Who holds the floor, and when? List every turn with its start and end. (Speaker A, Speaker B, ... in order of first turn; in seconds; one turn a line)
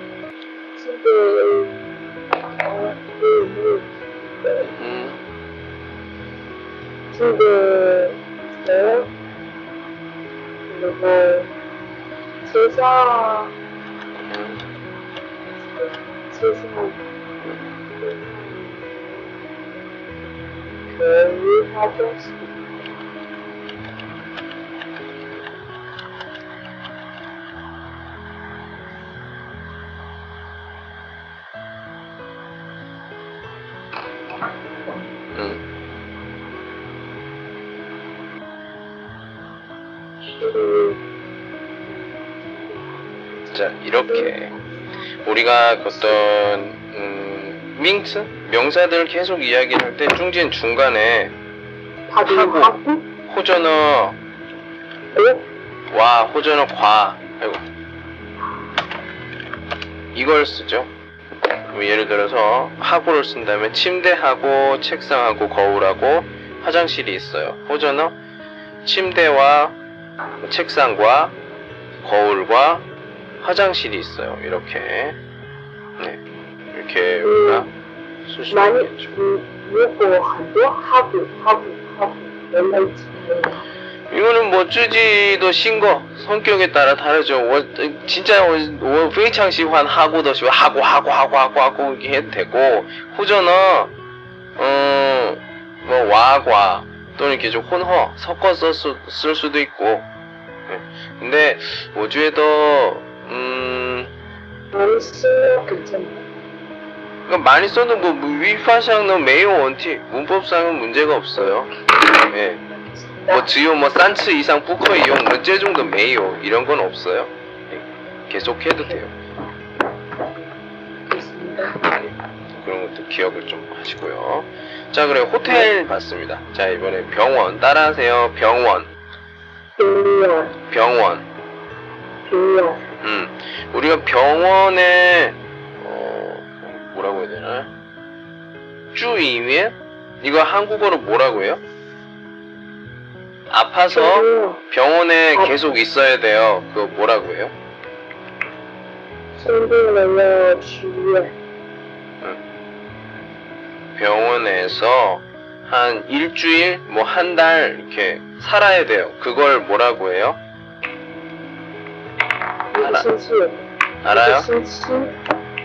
Speaker A: 0.8-3.9
Speaker A: 4.4-4.7
Speaker B: 4.6-5.2
Speaker A: 7.1-9.1
Speaker A: 10.7-11.5
Speaker A: 12.4-13.5
Speaker B: 14.2-14.6
Speaker A: 15.7-17.0
Speaker A: 18.0-19.3
Speaker A: 20.9-22.7
Speaker B: 35.4-35.6
Speaker A: 40.4-41.0
Speaker B: 43.5-44.5
Speaker A: 44.1-44.3
Speaker B: 45.2-51.3
Speaker A: 45.9-46.2
Speaker A: 52.1-53.1
Speaker B: 52.2-52.7
Speaker B: 53.3-54.2
Speaker A: 55.1-55.5
Speaker B: 55.9-57.6
Speaker B: 60.1-60.9
Speaker B: 61.7-68.2
Speaker B: 68.8-69.8
Speaker B: 70.4-71.3
Speaker B: 72.0-72.8
Speaker B: 73.4-75.2
Speaker B: 76.7-77.7
Speaker A: 77.2-77.7
Speaker B: 78.3-79.1
Speaker A: 78.5-83.6
Speaker B: 84.1-93.9
Speaker B: 94.6-100.1
Speaker B: 100.7-104.1
Speaker A: 104.7-106.3
Speaker B: 107.3-111.7
Speaker B: 112.3-112.6
Speaker A: 112.9-113.5
Speaker B: 113.3-119.1
Speaker A: 121.1-121.8
Speaker B: 121.9-128.9
Speaker A: 125.5-125.7
Speaker A: 129.8-130.6
Speaker B: 130.7-131.2
Speaker A: 132.3-132.8
Speaker B: 133.0-137.7
Speaker B: 138.9-141.6
Speaker B: 143.5-147.5
Speaker A: 143.9-144.6
Speaker A: 149.4-151.3
Speaker B: 154.0-160.4
Speaker A: 162.7-165.1
Speaker B: 162.8-163.1
Speaker B: 164.0-164.5